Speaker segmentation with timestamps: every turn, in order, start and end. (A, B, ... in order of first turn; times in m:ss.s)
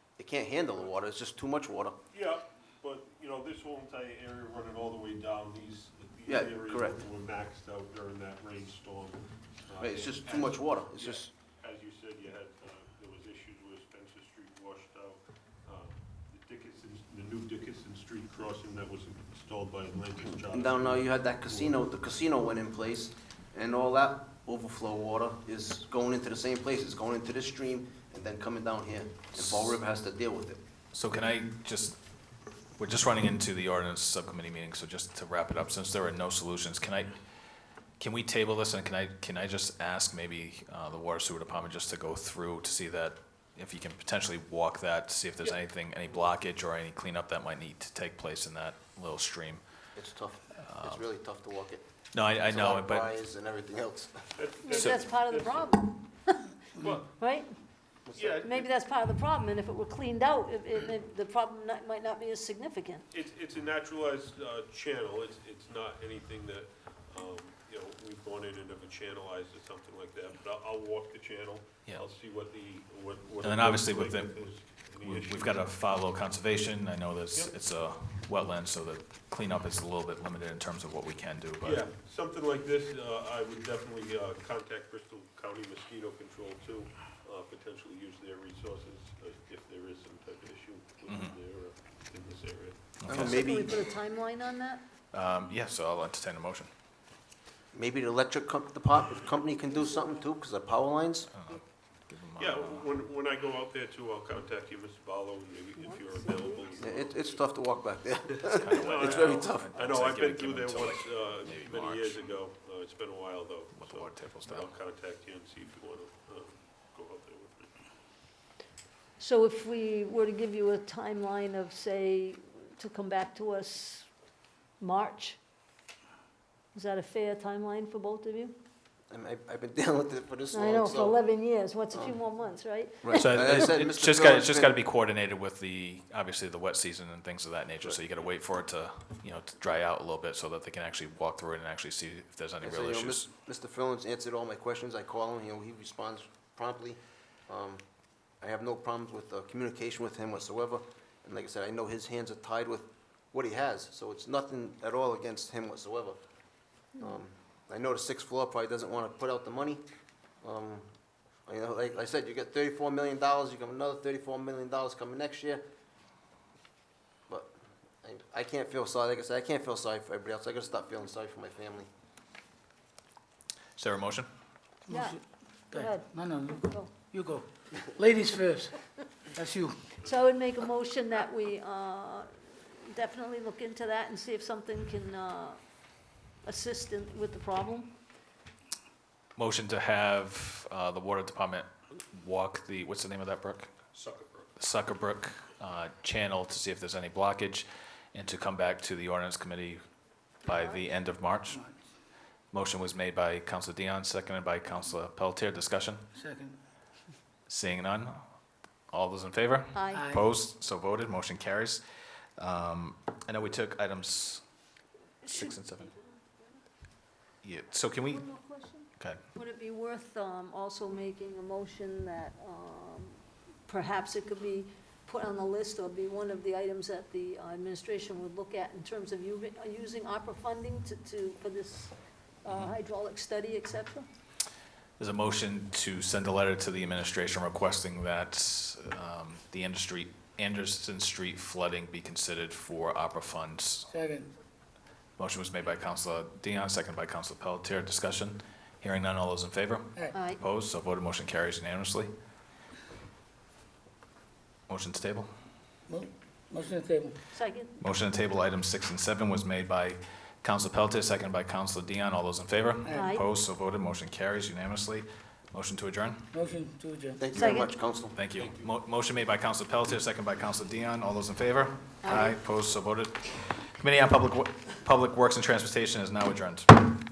0:00.2-0:02.0 A
0:02.1-0:21.8 B
0:06.3-0:07.0 A
0:09.8-0:11.3 A
0:20.3-0:30.6 A
0:29.3-0:29.8 C
0:30.9-0:32.0 C
0:32.8-0:37.1 C
0:38.0-0:49.6 C
0:50.0-0:51.8 A
0:50.6-0:51.0 C
0:52.1-0:53.1 C
0:52.4-0:54.3 A
0:54.4-0:55.7 B
0:54.6-0:56.5 D
0:56.8-0:57.1 B
0:57.1-0:57.6 D
0:58.0-0:58.4 A
0:58.1-0:58.7 B
0:58.4-1:03.1 D
1:03.1-1:15.7 B
1:13.4-1:14.4 C
1:15.0-1:21.8 C
1:21.6-1:33.0 B
1:31.1-1:31.3 C
1:33.0-1:33.4 C
1:33.0-1:33.8 A
1:33.1-1:34.8 D
1:35.1-1:36.7 C
1:37.7-1:41.3 A
1:41.3-1:42.9 C
1:42.4-1:47.4 B
1:45.8-1:46.8 D
1:46.8-1:49.8 A
1:48.5-1:52.2 C
1:48.8-1:57.7 B
1:53.7-1:54.7 C
1:59.2-2:04.1 D
2:04.8-2:05.4 D
2:06.7-2:08.6 D
2:09.1-2:11.2 A
2:10.5-2:13.2 D
2:11.9-2:12.2 A
2:13.0-2:14.8 A
2:13.1-2:23.3 C
2:22.6-2:27.8 A
2:28.4-2:36.2 A
2:37.0-2:39.8 A
2:40.4-2:40.9 A
2:41.5-2:45.6 A
2:48.0-2:51.9 A
2:53.8-2:54.3 C
2:54.9-3:00.0 E
2:54.9-2:55.2 D
2:55.7-2:56.1 D
2:56.6-2:56.9 D
3:00.0-3:05.6 D
3:06.4-3:07.9 D
3:09.4-3:13.8 C
3:13.9-3:14.5 B
3:14.6-3:19.8 C
3:20.4-3:21.6 C
3:20.5-3:20.8 D
3:21.5-3:21.8 E
3:22.5-3:26.0 C
3:26.1-3:26.6 E
3:27.5-3:28.2 C
3:28.9-3:31.8 C
3:29.7-3:30.1 D
3:29.9-3:30.2 E
3:32.4-3:34.4 C
3:35.2-3:36.6 D
3:35.3-3:35.9 C
3:37.4-3:38.3 C
3:38.1-3:54.0 D
3:52.5-3:52.8 C
3:55.0-4:03.9 C
4:03.9-4:04.3 E
4:05.2-4:12.1 C
4:10.1-4:10.4 D
4:14.7-4:15.3 C
4:15.9-4:17.2 E
4:17.3-4:17.8 D
4:17.8-4:26.2 C
4:22.9-4:23.2 D
4:26.3-4:27.2 E
4:27.2-4:28.2 A
4:27.3-4:27.7 D
4:28.1-4:36.9 C
4:28.4-4:28.7 B
4:32.0-4:32.4 D